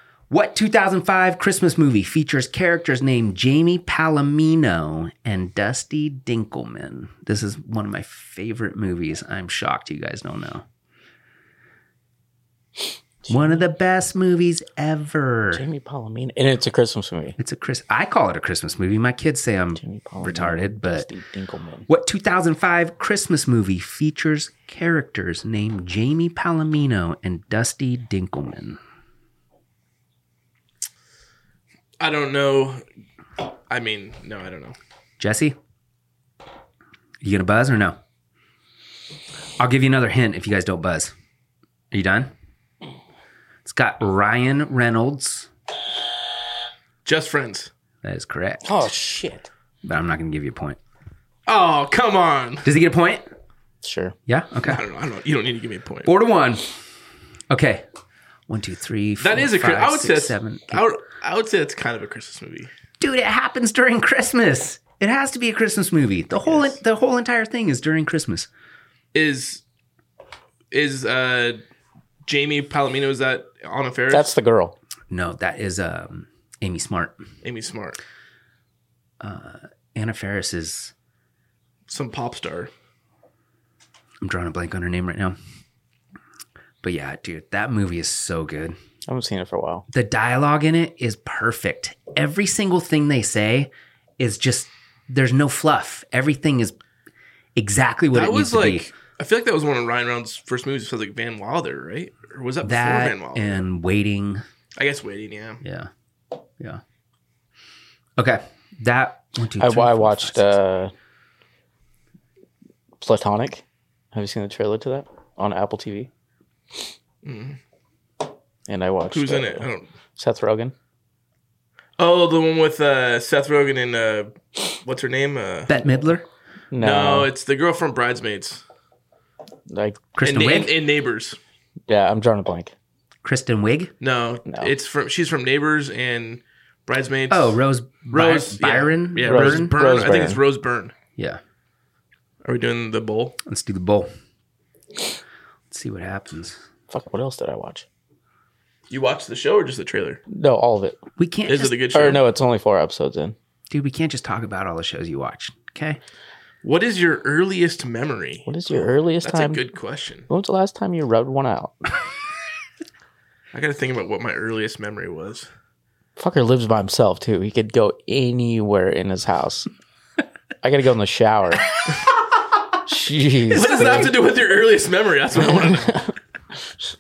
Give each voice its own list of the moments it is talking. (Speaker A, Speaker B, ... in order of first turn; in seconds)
Speaker A: 0.3-10.7, 13.3-15.6, 17.4-21.1, 21.9-28.8, 35.2-35.6, 37.2-38.0, 39.6-41.1, 41.9-42.3, 43.6-45.5, 48.0-48.7, 49.8-50.8, 52.6-53.3, 54.3-54.8, 56.0-56.7, 57.5-57.9, 58.5-60.8, 63.0-68.5, 75.1-77.2, 79.2-80.9, 84.2-85.4, 86.8-88.8, 89.9-96.8, 97.6-98.9, 102.6-104.4, 105.6-105.9, 108.2-110.6, 125.7-126.2, 130.2-130.7, 133.2-133.9, 137.3-139.8, 143.4-144.1, 145.7-146.6, 151.2-151.8, 153.7-156.0
Speaker B: 13.3-13.6, 15.5-17.4, 19.8-21.9, 48.6-49.5, 53.8-54.2, 74.1-74.8, 89.1-89.9, 109.6-110.9, 113.0-116.1, 118.7-119.7, 120.2-120.7, 126.7-127.3, 129.7-130.1, 131.9-132.7, 139.3-140.4, 146.9-147.9, 150.3-151.0, 151.9-153.3, 158.5-159.6, 160.3-161.8, 166.2-169.7, 170.6-171.7, 172.9-174.1, 175.4-176.1
Speaker C: 32.0-32.8, 33.7-34.8, 47.0-47.7, 51.5-52.7, 54.7-56.1, 59.2-62.7, 66.5-66.7, 69.1-69.6, 70.7-71.6, 72.3-74.3, 77.4-78.0, 81.9-82.7, 98.1-103.6, 104.8-105.6, 117.2-117.6, 119.1-119.9, 122.0-125.8, 126.8-128.6, 130.2-131.4, 134.0-140.9, 142.4-143.4, 148.9-150.2, 151.5-152.2, 156.6-158.5, 159.2-160.3, 163.5-165.5, 173.5-176.0